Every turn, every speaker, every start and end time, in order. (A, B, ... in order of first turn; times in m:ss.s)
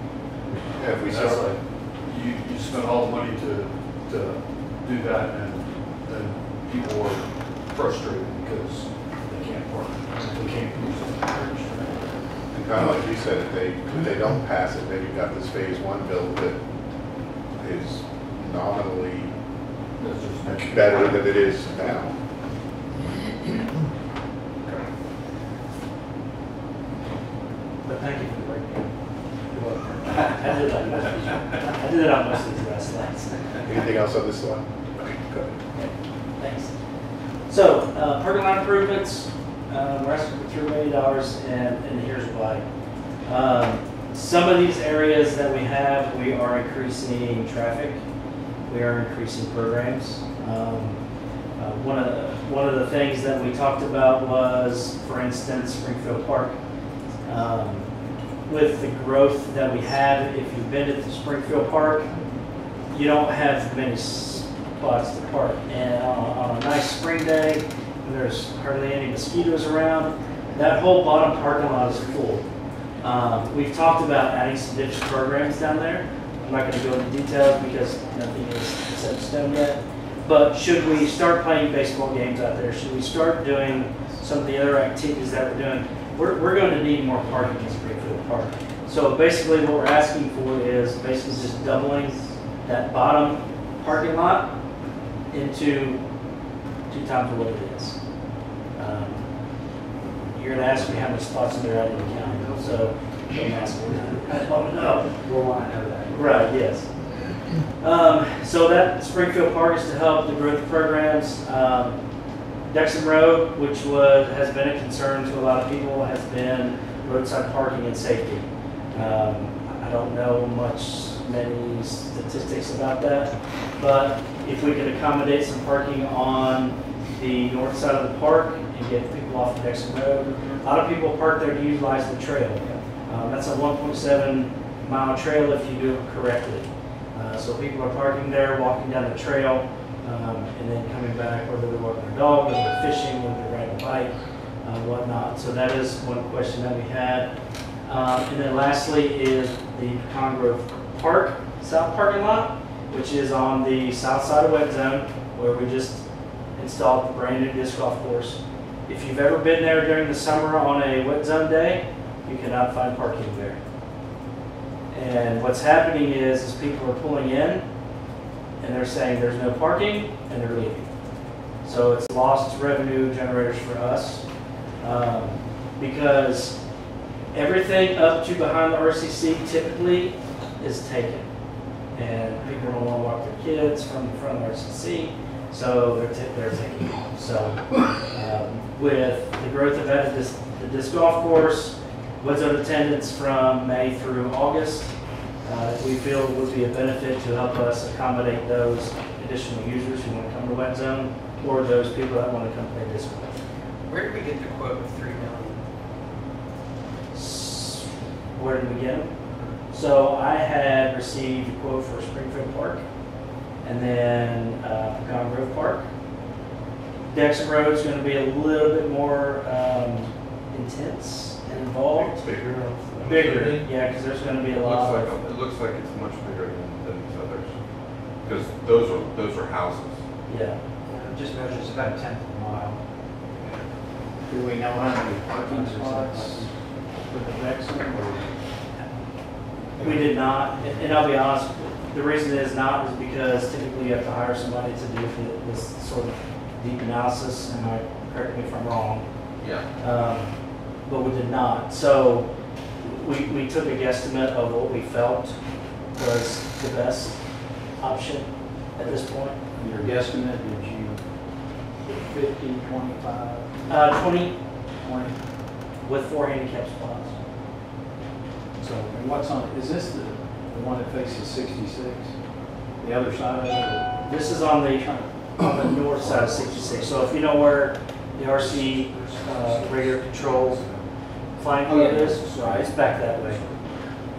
0:00.8-0:01.6 A
0:00.9-0:12.1 B
0:10.2-0:10.7 C
0:12.5-0:16.6 A
0:17.6-0:19.3 A
0:20.0-0:22.1 B
0:20.5-0:22.1 A
0:27.8-0:28.9 D
0:29.7-0:30.8 D
0:30.3-0:33.6 E
0:33.6-0:34.6 A
0:35.8-0:36.7 E
0:37.5-0:42.7 E
0:43.2-0:48.0 E
0:48.7-0:51.0 E
0:51.6-0:56.6 E
0:57.2-0:57.9 E
0:58.5-1:02.1 E
1:02.9-1:12.4 E
1:13.0-1:34.6 E
1:35.3-1:36.0 E
1:36.9-1:38.0 E
1:38.8-1:39.3 E
1:40.3-1:45.2 E
1:40.7-1:41.0 B
1:41.8-1:43.6 B
1:45.2-1:46.3 D
1:46.1-1:47.0 E
1:47.8-1:52.0 E
1:52.7-2:27.3 E
2:10.3-2:10.7 F
2:27.8-2:36.0 E
2:36.6-2:43.6 E
2:44.9-2:47.7 E
2:48.6-2:50.9 E
2:51.6-2:54.3 E
2:54.8-2:56.6 E
2:57.3-3:01.3 E
3:01.9-3:23.4 E
3:23.9-3:25.6 F
3:27.1-3:29.1 E
3:29.7-3:32.8 E
3:33.6-3:35.9 E
3:37.1-3:42.2 E
3:42.0-3:43.5 A
3:43.0-3:43.7 G
3:43.0-3:45.2 E
3:44.6-3:47.6 G
3:48.2-3:50.0 G
3:50.3-3:51.9 E
3:50.9-3:52.8 D
3:54.3-3:56.5 C
3:55.3-3:55.7 B
3:57.1-3:58.3 C
3:59.8-4:09.1 E
4:09.4-4:09.7 G
4:09.8-4:15.4 E
4:16.0-4:17.2 E
4:17.8-4:19.4 E
4:19.6-4:21.0 C
4:21.8-4:23.5 C
4:23.7-4:24.4 E
4:24.8-4:25.2 C
4:25.8-4:27.2 E
4:28.6-4:32.2 C
4:32.8-4:34.1 C
4:34.0-4:40.6 E
4:34.7-4:35.1 C
4:36.0-4:37.4 B
4:38.3-4:40.9 B
4:40.2-4:40.7 C
4:41.4-4:43.4 E
4:41.6-4:43.5 C
4:43.3-4:43.7 B